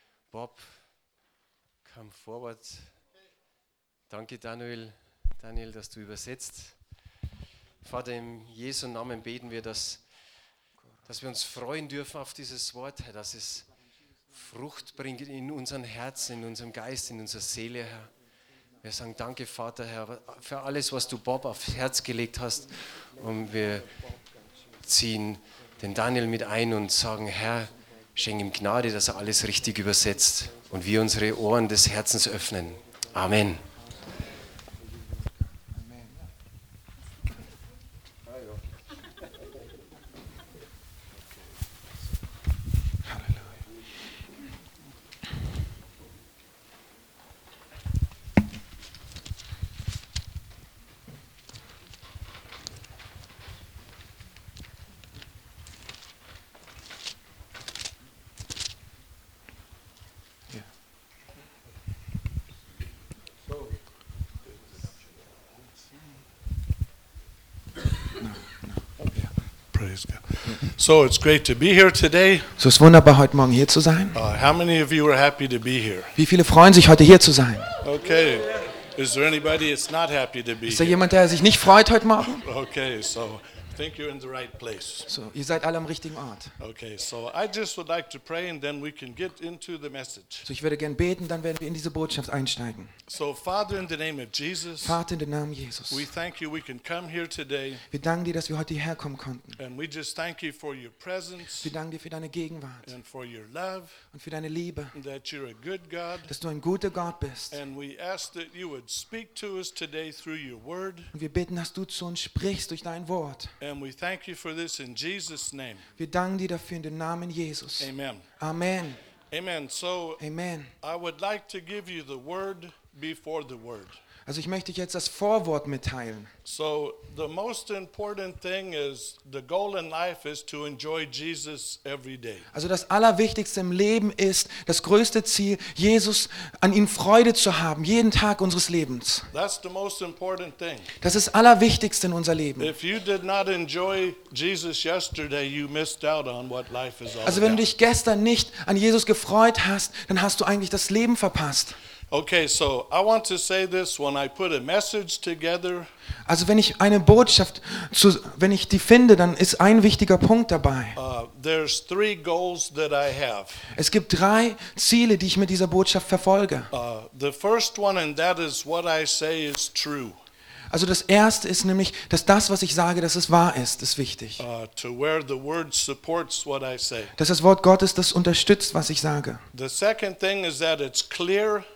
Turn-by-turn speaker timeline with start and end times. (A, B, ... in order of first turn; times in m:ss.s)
0:00.3-0:01.0 A
0:01.8-0:03.0 A
0:04.1-0:07.1 A
0:07.8-0:10.1 A
0:11.0-0:13.7 A
0:14.3-0:18.1 A
0:18.8-0:24.0 A
0:24.8-0:33.6 A
0:43.1-0:43.5 B
1:09.7-1:12.5 C
1:12.6-1:14.2 B
1:14.1-1:16.2 C
1:16.2-1:17.7 B
1:17.8-1:21.0 C
1:20.7-1:22.4 B
1:22.4-1:25.1 C
1:25.1-1:26.5 B
1:26.6-1:30.5 C
1:30.4-1:32.9 B
1:33.1-1:35.0 C
1:34.8-1:36.0 B
1:35.9-1:37.8 C
1:37.9-1:39.5 B
1:39.6-1:41.7 C
1:41.6-1:42.9 B
1:42.8-1:44.0 C
1:44.1-1:44.9 B
1:44.9-1:46.3 C
1:46.3-1:47.6 B
1:47.5-1:51.1 C
1:51.1-1:53.5 B
1:53.6-1:55.9 C
1:56.0-1:59.0 B
1:57.8-1:58.3 C
1:59.3-2:00.2 C
2:00.2-2:00.7 B
2:00.8-2:04.0 C
2:04.2-2:06.3 B
2:06.4-2:12.5 C
2:12.5-2:19.3 B
2:19.3-2:20.9 C
2:21.0-2:22.7 B
2:22.6-2:27.6 C
2:27.2-2:31.8 B
2:32.1-2:35.9 C
2:36.3-2:41.0 B
2:41.0-2:43.7 C
2:43.7-2:46.7 B
2:46.7-2:50.2 C
2:50.7-2:54.4 B
2:54.4-2:57.1 C
2:57.2-2:59.4 B
2:59.5-3:01.6 C